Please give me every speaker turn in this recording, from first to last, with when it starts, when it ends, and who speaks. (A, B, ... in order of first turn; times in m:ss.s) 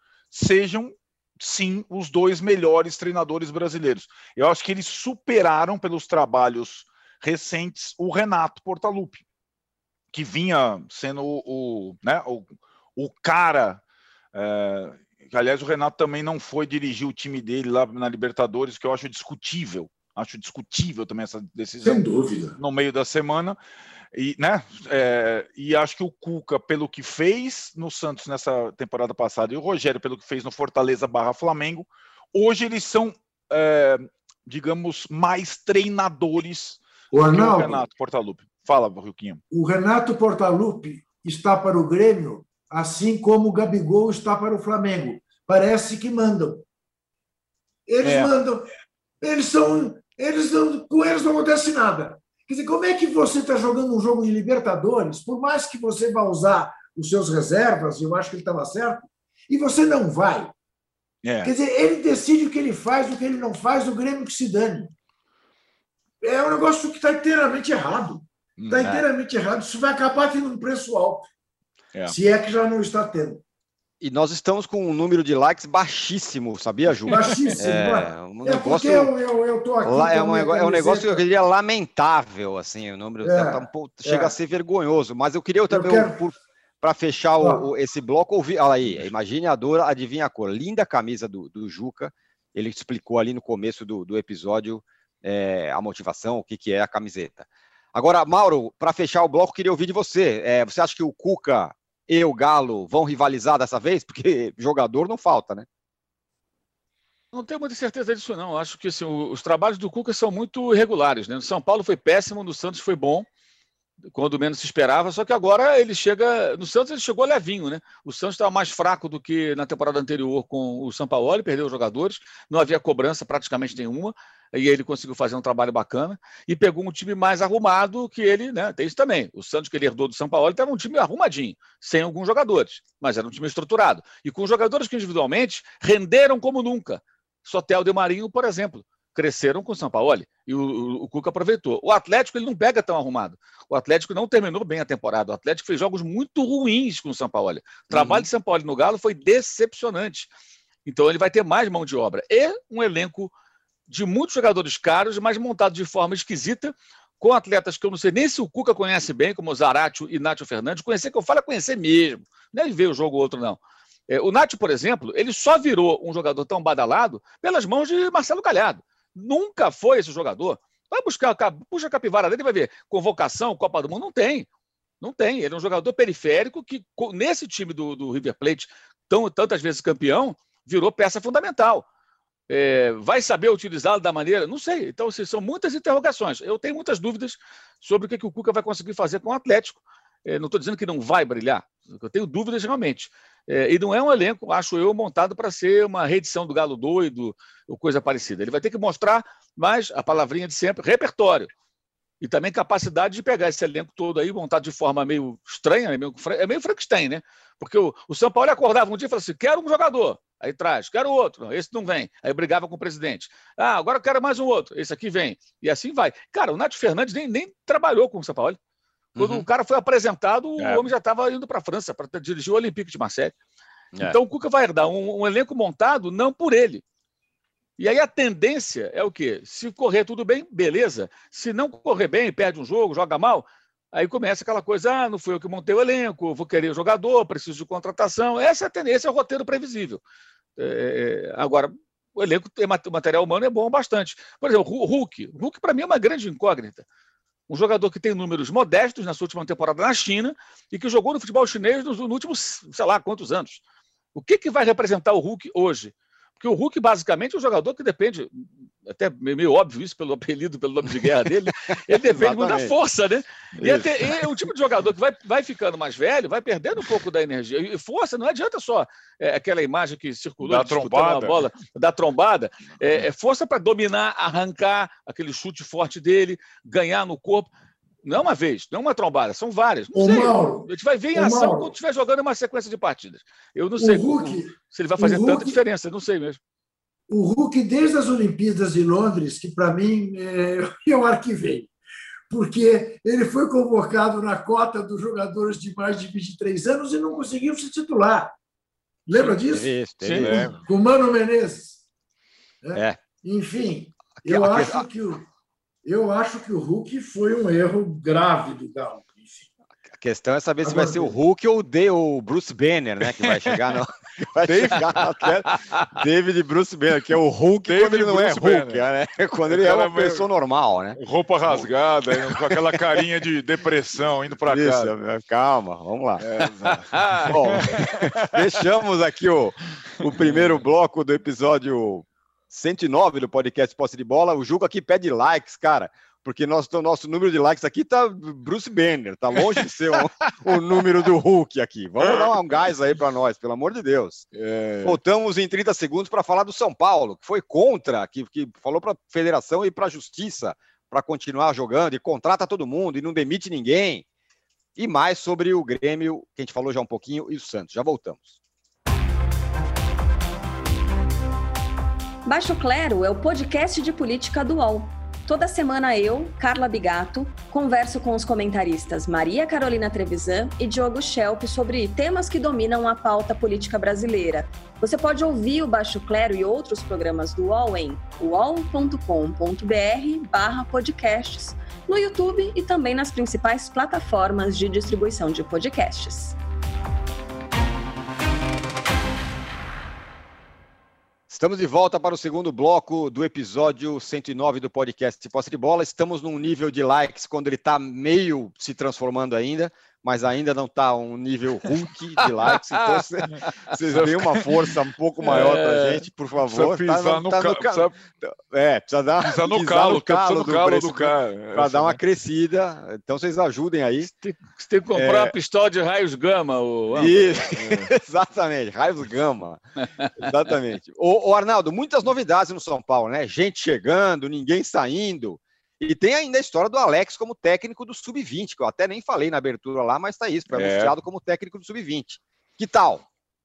0:00.3-0:09.2 A
0:10.1-0:13.8 A
0:14.3-0:23.6 A
0:21.8-0:22.6 B
0:24.1-0:39.4 A
0:37.1-0:37.8 B
0:39.5-0:46.6 B
0:47.9-0:48.7 B
0:48.0-0:48.3 A
0:49.2-1:00.5 B
1:01.2-1:01.5 A
1:01.4-1:04.9 B
1:06.2-1:11.3 B
1:08.6-1:09.0 A
1:12.1-1:13.4 B
1:14.0-1:19.1 C
1:17.1-1:21.2 B
1:19.8-1:45.6 C
1:23.2-1:24.3 B
1:25.7-1:26.2 B
1:47.3-1:53.2 D
1:54.1-2:30.3 D
2:27.9-2:28.3 C
2:30.8-2:33.3 D
2:33.9-2:54.5 D
2:55.0-3:01.8 D
3:02.5-3:21.5 D
3:22.2-3:38.6 D
3:39.1-3:39.4 C
3:39.2-3:43.3 D
3:40.6-3:40.9 C
3:44.0-3:46.8 D
3:47.8-4:00.0 D
4:00.6-4:06.8 D
4:07.5-4:13.6 D
4:14.1-4:37.5 D
4:21.9-4:22.7 C
4:23.6-4:24.3 C
4:30.4-4:31.4 A
4:38.0-4:46.4 D
4:39.9-4:41.7 B
4:43.8-4:45.6 B
4:47.1-4:51.7 B
4:52.3-4:58.4 B
4:59.1-4:59.7 B
4:59.1-5:00.5 C
5:00.0-5:00.5 D
5:00.2-5:00.5 A
5:00.5-5:01.8 B
5:02.6-5:05.3 B
5:02.7-5:03.0 C
5:04.2-5:04.8 C
5:05.8-5:09.5 B
5:10.0-5:23.0 C
5:10.6-5:11.2 B
5:13.2-5:13.6 A
5:14.4-5:15.3 A
5:17.7-5:18.8 A
5:19.4-5:20.3 A
5:21.0-5:24.9 A
5:24.5-5:26.8 C
5:26.2-5:28.6 A
5:26.9-5:27.3 D
5:27.3-5:44.3 C
5:30.2-5:30.6 A
5:42.0-5:42.3 A
5:44.3-5:45.0 A
5:44.8-5:54.0 C
5:54.8-5:58.4 C
6:02.2-6:26.4 E
6:31.3-6:54.1 C
6:43.9-6:44.4 A
6:45.2-6:46.0 D
6:46.4-6:48.0 A
6:49.2-6:52.0 A
6:54.0-6:57.6 D
6:54.9-6:55.3 C
6:56.9-6:59.6 C
7:00.2-7:13.0 C
7:10.5-7:11.0 A